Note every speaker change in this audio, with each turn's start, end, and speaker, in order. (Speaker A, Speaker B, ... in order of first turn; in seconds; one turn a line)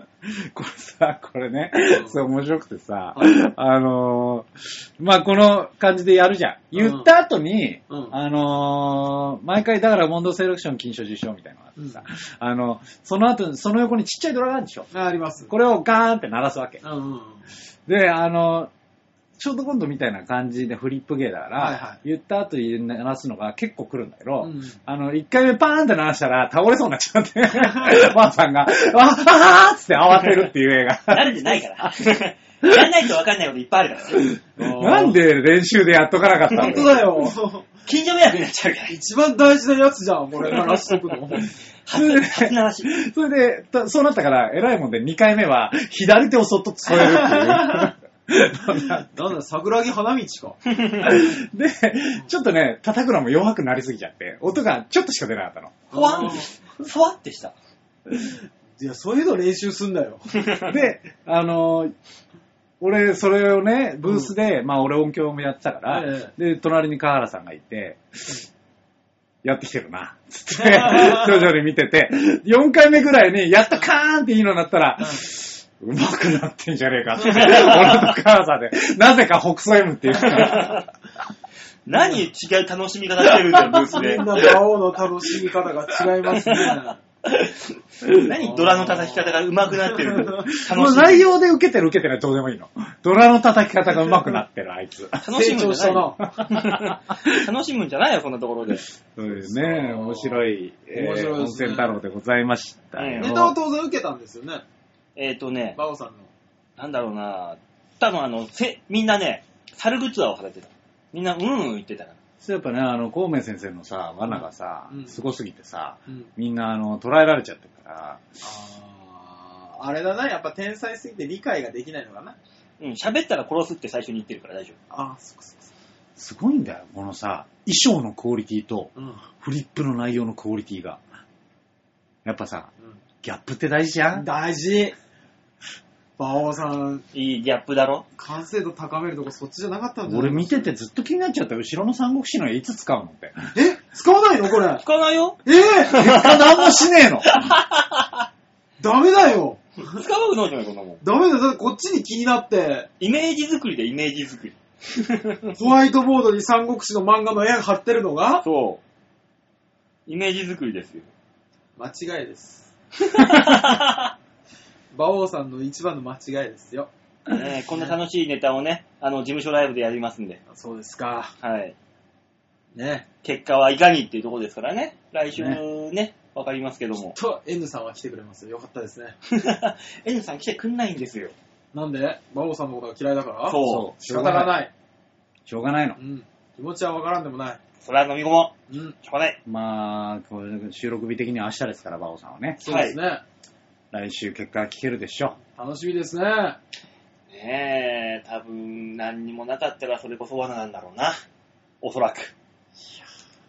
Speaker A: 0.2-14.9
Speaker B: 1.9-2.2
Speaker B: 3.2-3.4
Speaker B: 6.7-7.1
Speaker B: 7.9-8.1
Speaker B: 14.9-15.5
Speaker A: 15.5-16.8
Speaker B: 16.8-17.5
Speaker A: 17.9-18.7
Speaker A: 19.4-31.9
Speaker B: 21.6-22.0
Speaker B: 24.4-24.8
Speaker B: 27.6-27.9
Speaker C: 31.1-34.3
Speaker A: 34.3-37.4
Speaker B: 34.6-35.2
Speaker C: 36.5-36.9
Speaker B: 36.5-37.7
Speaker C: 37.9-39.0
Speaker B: 38.9-41.5
Speaker C: 41.9-42.9
Speaker A: 41.9-49.1
Speaker B: 46.9-47.9
Speaker B: 48.8-50.6
Speaker C: 50.7-51.1
Speaker A: 51.0-55.8
Speaker B: 55.9-56.5
Speaker C: 55.9-57.5
Speaker B: 58.8-60.2
Speaker C: 60.4-60.7
Speaker A: 60.7-61.9
Speaker A: 62.8-68.4
Speaker B: 64.0-64.3
Speaker B: 65.9-66.3
Speaker A: 69.4-80.8
Speaker B: 70.6-71.4
Speaker C: 77.2-78.1
Speaker C: 80.1-80.8
Speaker C: 81.9-84.5
Speaker B: 81.9-82.2
Speaker B: 83.6-87.0
Speaker C: 86.3-86.7
Speaker C: 87.2-91.3
Speaker B: 88.3-90.5
Speaker A: 90.5-95.2
Speaker B: 94.0-94.4
Speaker C: 95.2-98.8
Speaker B: 95.3-96.2
Speaker A: 96.4-97.2
Speaker A: 99.2-103.6
Speaker B: 99.3-102.0
Speaker C: 103.0-103.3
Speaker B: 103.2-104.6
Speaker C: 105.2-105.8
Speaker B: 105.8-106.3
Speaker C: 106.8-112.2
Speaker A: 112.4-118.2
Speaker B: 114.3-115.2
Speaker B: 118.4-122.4
Speaker C: 122.8-124.8
Speaker B: 124.9-125.7
Speaker A: 126.2-131.0
Speaker B: 129.0-129.2
Speaker A: 132.2-132.7
Speaker A: 133.2-134.3
Speaker B: 134.1-134.9
Speaker B: 136.2-137.1
Speaker C: 137.1-138.1
Speaker B: 138.2-140.7
Speaker A: 140.1-143.5
Speaker B: 143.5-144.8
Speaker C: 144.8-145.4
Speaker B: 145.4-146.0
Speaker C: 145.9-148.2
Speaker A: 145.9-147.5
Speaker B: 148.8-150.0
Speaker C: 149.8-151.0
Speaker B: 151.0-152.9
Speaker C: 153.0-155.5
Speaker B: 155.6-158.4
Speaker C: 158.4-158.8
Speaker C: 160.1-161.1
Speaker B: 161.8-162.7
Speaker C: 163.0-164.1
Speaker B: 164.9-166.9
Speaker C: 167.3-170.4
Speaker B: 170.5-171.3
Speaker C: 171.4-171.8
Speaker B: 172.8-173.1
Speaker C: 173.2-177.2
Speaker B: 177.2-179.2
Speaker C: 179.3-181.3
Speaker B: 181.7-184.7
Speaker C: 183.5-183.9
Speaker A: 183.6-184.6
Speaker A: 185.5-186.0
Speaker B: 186.0-187.6
Speaker C: 187.8-189.4
Speaker B: 188.7-189.0
Speaker A: 189.5-192.6
Speaker B: 192.6-193.2
Speaker C: 192.6-193.0
Speaker A: 193.9-195.4
Speaker B: 195.6-196.6
Speaker C: 197.3-201.2
Speaker C: 201.8-202.3